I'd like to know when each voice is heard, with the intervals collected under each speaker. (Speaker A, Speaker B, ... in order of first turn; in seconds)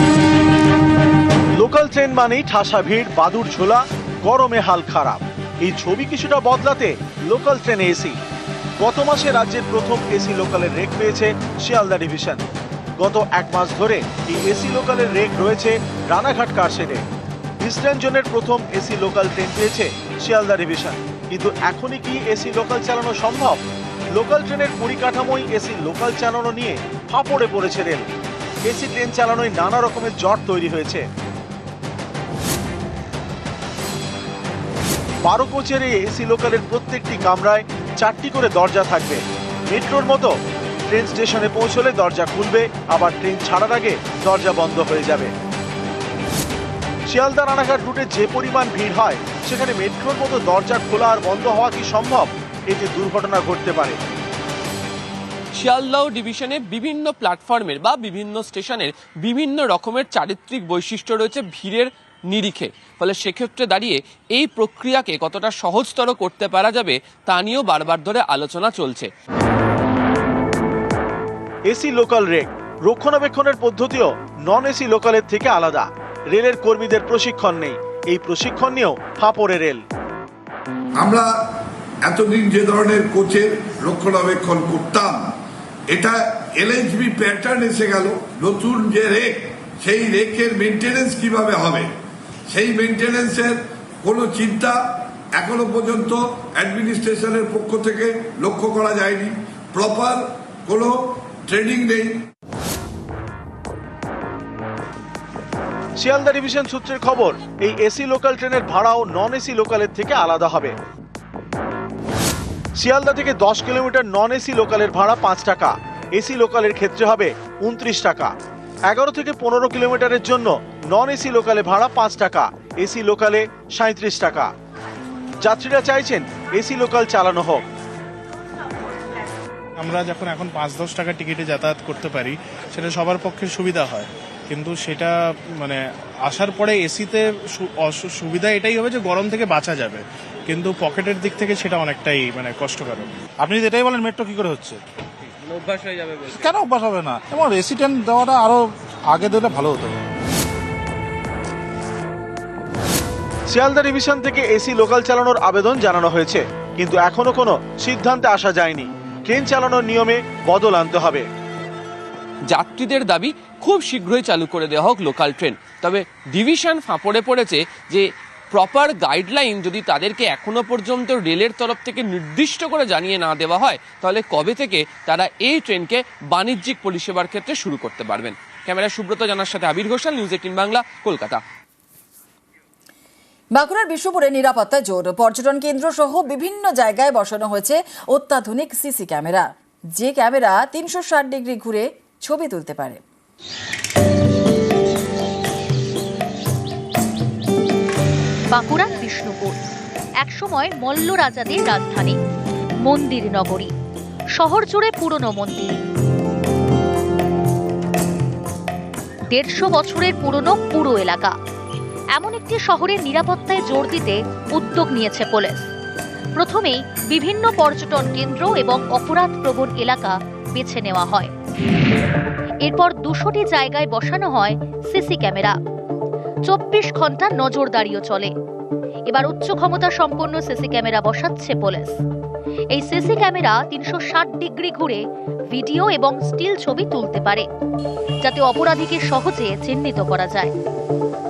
Speaker A: 1.6-8.2, 8.8-12.4, 13.0-17.0, 17.6-23.6, 24.1-28.1, 28.6-31.1, 35.2-40.3, 40.9-45.3, 47.1-54.0, 71.7-79.8, 106.0-110.7, 112.8-118.3, 118.9-124.5, 125.4-127.6, 153.5-161.3
Speaker B: 55.5-69.1, 145.3-146.6, 162.5-181.4
Speaker C: 81.0-81.3, 82.0-85.3, 85.9-91.9, 92.5-102.2
Speaker D: 129.8-143.1
Speaker E: 143.4-144.8, 146.2-150.0
Speaker F: 183.5-193.0
Speaker G: 198.5-199.6, 200.2-202.2, 202.8-203.7, 204.3-205.7, 209.3-211.3, 212.2-215.7, 216.3-221.3, 222.7-225.5, 226.5-228.3, 229.1-231.9, 232.7-237.4, 238.2-240.5